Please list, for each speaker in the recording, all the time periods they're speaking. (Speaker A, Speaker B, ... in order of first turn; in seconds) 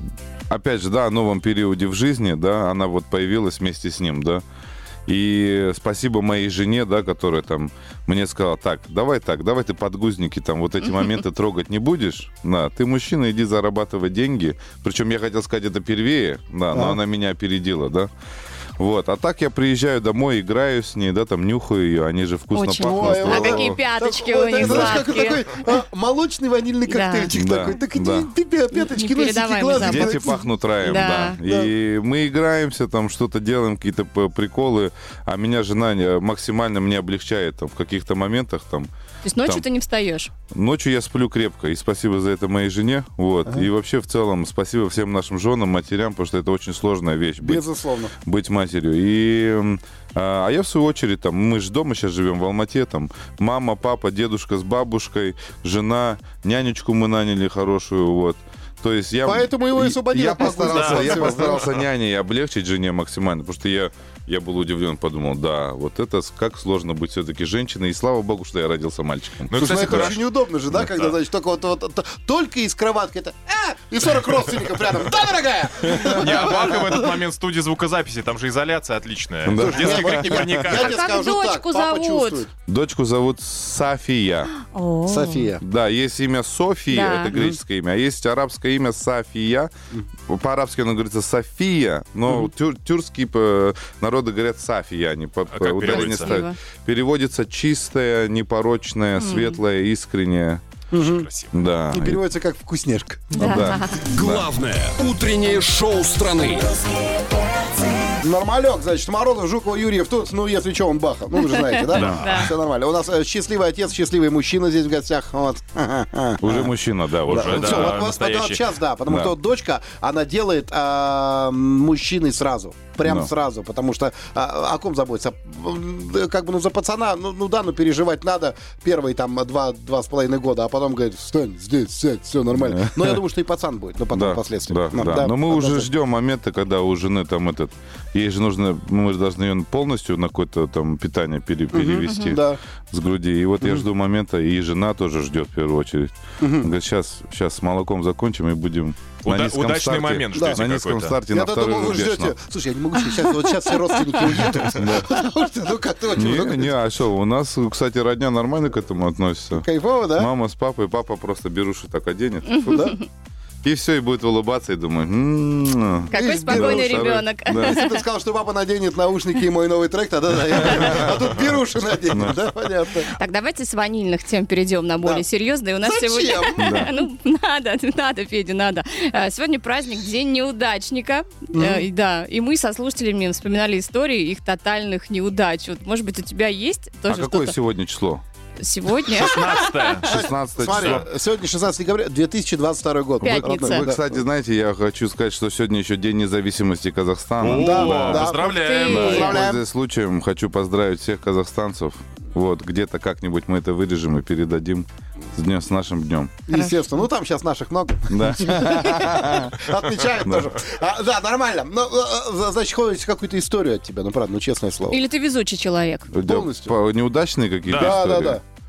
Speaker A: 0.5-4.4, 5.1-18.1, 18.8-23.8, 24.6-25.0, 27.3-28.3, 29.8-38.9, 40.5-47.6, 48.2-70.2, 79.5-80.6, 82.7-84.5, 85.6-89.7, 90.3-100.6, 101.5-102.2, 103.4-104.5, 112.0-112.2, 116.4-118.0, 119.1-119.3, 123.0-123.3, 132.6-133.2, 134.1-152.4, 154.6-155.2, 156.1-163.0, 163.6-167.8, 170.7-171.1, 172.1-172.4, 176.6-176.9, 187.1-188.2, 190.0-191.1, 193.2-198.3, 198.9-206.3, 208.1-209.7, 210.2-210.5, 216.1-218.4
Speaker B: 16.7-17.0, 22.7-30.4, 47.4-48.1, 59.2-61.7, 69.5-77.1, 79.5-82.5, 85.1-85.6, 100.9-101.3, 101.9-103.5, 108.2-116.7, 117.3-135.9, 141.7-142.6, 146.4-146.7, 150.3-150.6, 151.3-156.7, 159.5-160.3, 162.7-163.0, 166.1-173.1, 175.8-176.9, 181.6-181.8, 190.0-194.2, 197.5-199.6, 206.5-215.0, 216.2-216.8, 217.7-218.4
Speaker C: 22.5-25.5, 26.9-27.3, 28.7-31.4, 39.2-40.3, 80.7-82.4, 84.6-85.5, 86.9-87.3, 95.9-96.6, 99.2-99.6, 103.4-104.0, 111.6-112.5, 142.0-142.4, 166.1-168.0, 173.2-187.6, 188.6-189.6, 193.2-193.9, 198.4-199.4, 214.9-216.1
Speaker D: 60.6-61.6, 69.5-70.3, 75.9-81.0, 95.5-96.4, 101.0-101.5, 111.9-112.5, 117.3-118.7, 149.2-151.2, 189.2-190.1, 190.7-191.1, 197.4-199.4, 217.7-218.0
Speaker E: 104.0-106.8